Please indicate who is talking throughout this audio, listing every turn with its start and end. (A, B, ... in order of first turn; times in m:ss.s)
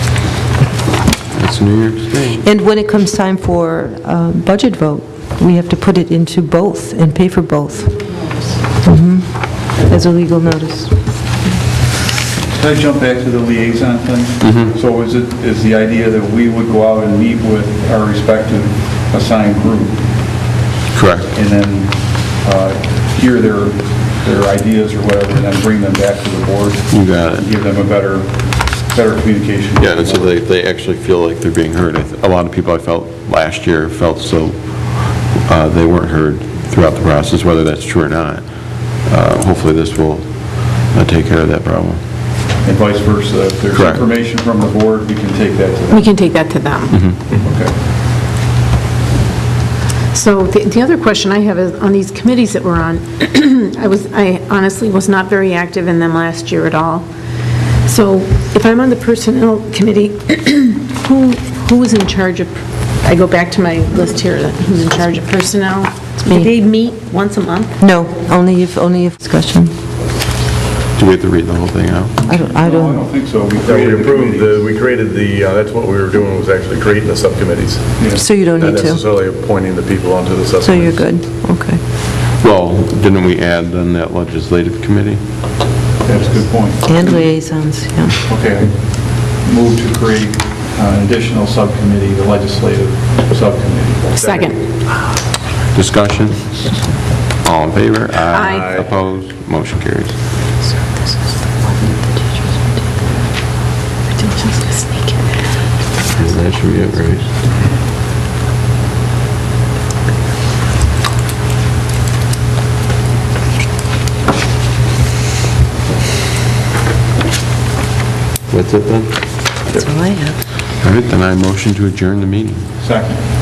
0:01.4-0:02.4 A
0:02.4-0:08.0 B
0:08.8-0:09.2 B
0:09.8-0:10.9 B
0:12.6-0:20.1 C
0:14.4-0:14.7 A
0:20.9-0:21.3 A
0:21.3-0:30.3 C
0:26.9-0:27.5 A
0:29.8-0:34.6 A
0:35.3-0:38.4 A
0:39.1-0:42.0 A
0:42.6-0:46.1 C
0:43.7-0:44.0 A
0:45.9-0:47.0 D
0:46.9-0:47.2 A
0:47.4-0:47.8 C
0:50.1-0:57.1 D
0:57.8-1:07.7 D
1:07.8-1:09.7 B
1:11.0-1:12.2 A
1:12.2-1:13.0 B
1:12.4-1:14.6 C
1:13.6-1:21.1 E
1:18.0-1:18.3 C
1:18.1-1:19.0 B
1:20.6-1:21.8 B
1:22.4-1:25.2 A
1:26.0-1:27.2 C
1:26.8-1:28.2 B
1:28.3-1:34.2 C
1:34.2-1:34.5 E
1:34.2-1:34.6 D
1:35.7-1:36.6 A
1:37.4-1:40.2 A
1:38.3-1:38.8 D
1:38.5-1:38.9 E
1:44.1-1:45.3 D
1:46.1-1:47.3 A
1:58.5-1:59.2 A
1:59.7-2:00.4 B
2:00.8-2:02.7 A
2:02.8-2:03.2 C